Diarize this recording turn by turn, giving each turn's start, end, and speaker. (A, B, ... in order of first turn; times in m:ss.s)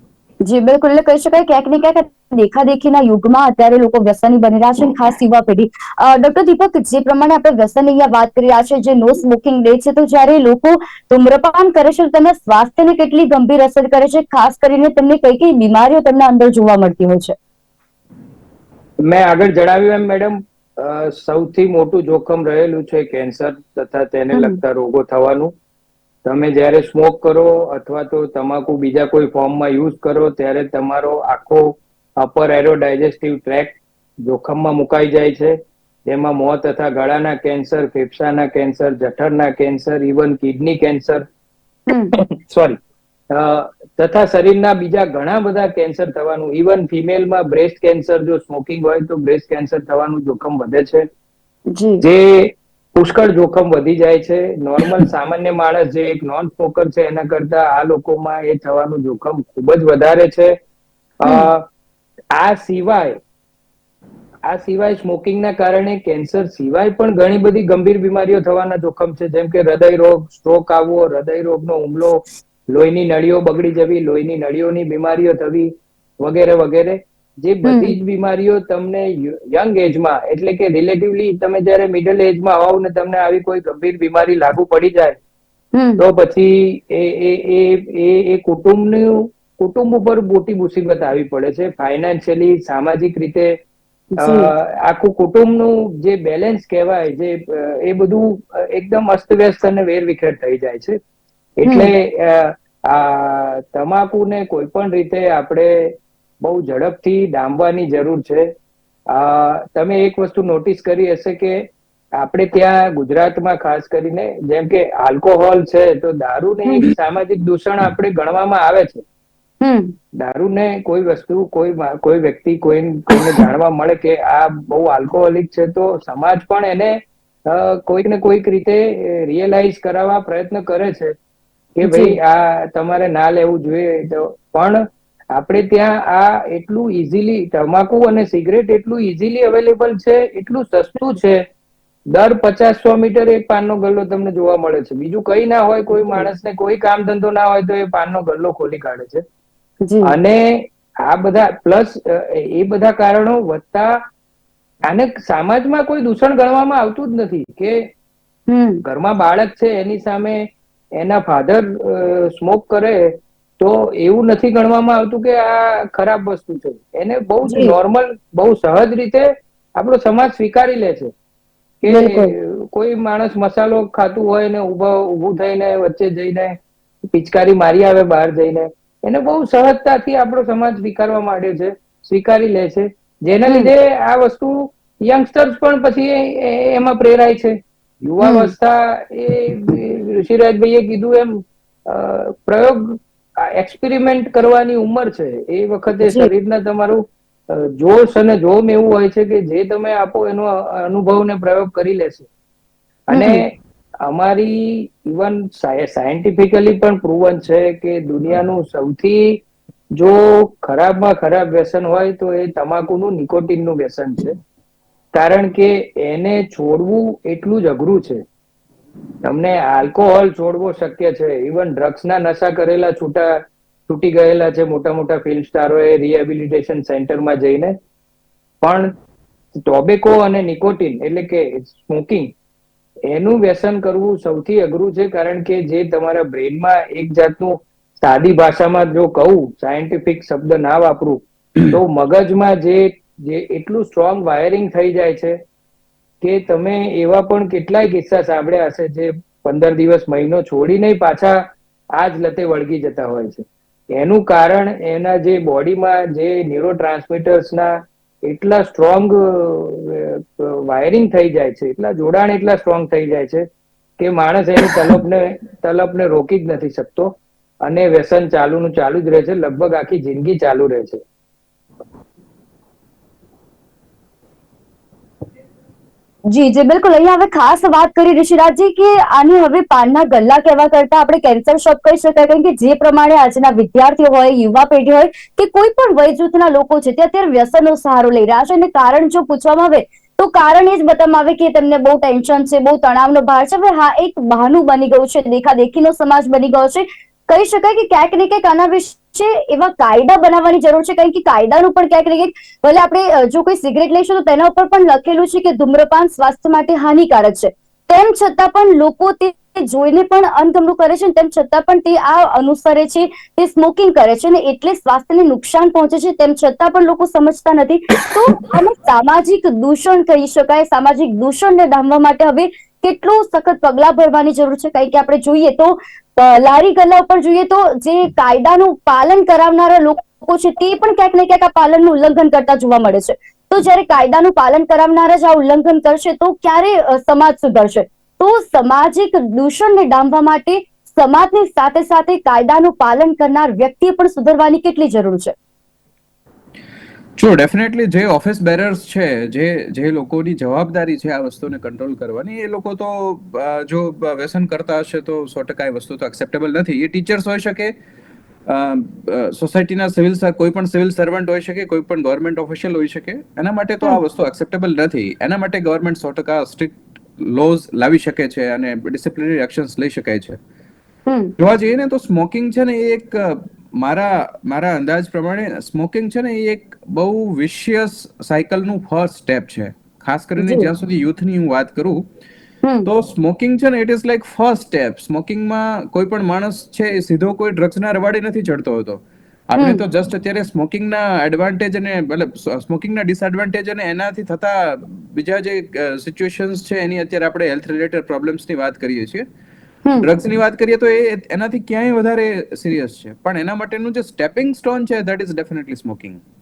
0:00.4-0:17.3 A
0:19.0-0:25.5 B
0:24.3-0:24.6 A
0:26.2-0:41.2 B
0:42.1-0:42.8 B
0:43.3-0:51.0 B
0:51.7-0:52.0 A
0:52.0-1:00.5 B
1:01.2-1:01.6 B
1:02.3-1:03.2 B
1:04.5-1:25.2 B
1:17.6-1:18.0 A
1:25.7-1:26.0 A
1:26.0-1:33.5 B
1:34.2-1:34.5 A
1:34.2-1:41.0 B
1:41.6-1:48.5 B
1:41.6-1:41.9 A
1:49.1-1:51.6 B
1:52.2-1:59.0 B
1:56.7-1:56.9 A
1:59.6-1:59.9 A
2:00.2-2:11.1 B
2:11.8-2:14.8 B
2:11.8-2:12.2 A
2:15.3-2:21.4 B
2:22.1-2:29.2 B
2:29.8-2:30.2 A
2:30.0-2:34.0 B
2:34.9-2:37.8 B
2:38.5-2:38.8 A
2:38.8-2:51.1 B
2:47.4-2:47.7 A
2:51.8-2:56.6 B
2:51.9-2:52.3 A
2:57.1-3:22.3 B
3:08.2-3:08.5 A
3:16.0-3:16.3 A
3:23.1-3:23.4 B
3:23.1-3:23.4 A
3:24.0-3:29.4 B
3:29.9-3:34.4 B
3:35.1-3:38.2 B
3:39.2-3:43.3 B
3:43.9-3:47.7 B
3:48.6-3:48.9 B
3:49.6-3:52.3 B
3:53.1-4:05.3 B
4:06.2-4:11.4 B
4:11.9-4:17.7 B
4:18.2-4:23.4 B
4:24.0-4:31.0 B
4:36.3-5:45.3 A
5:47.2-5:57.7 C
5:58.4-6:10.4 C
6:11.1-6:11.3 A
6:11.4-6:22.0 C
6:20.4-6:20.7 A
6:22.8-6:39.2 C
6:29.6-6:29.8 A
6:40.0-6:46.2 C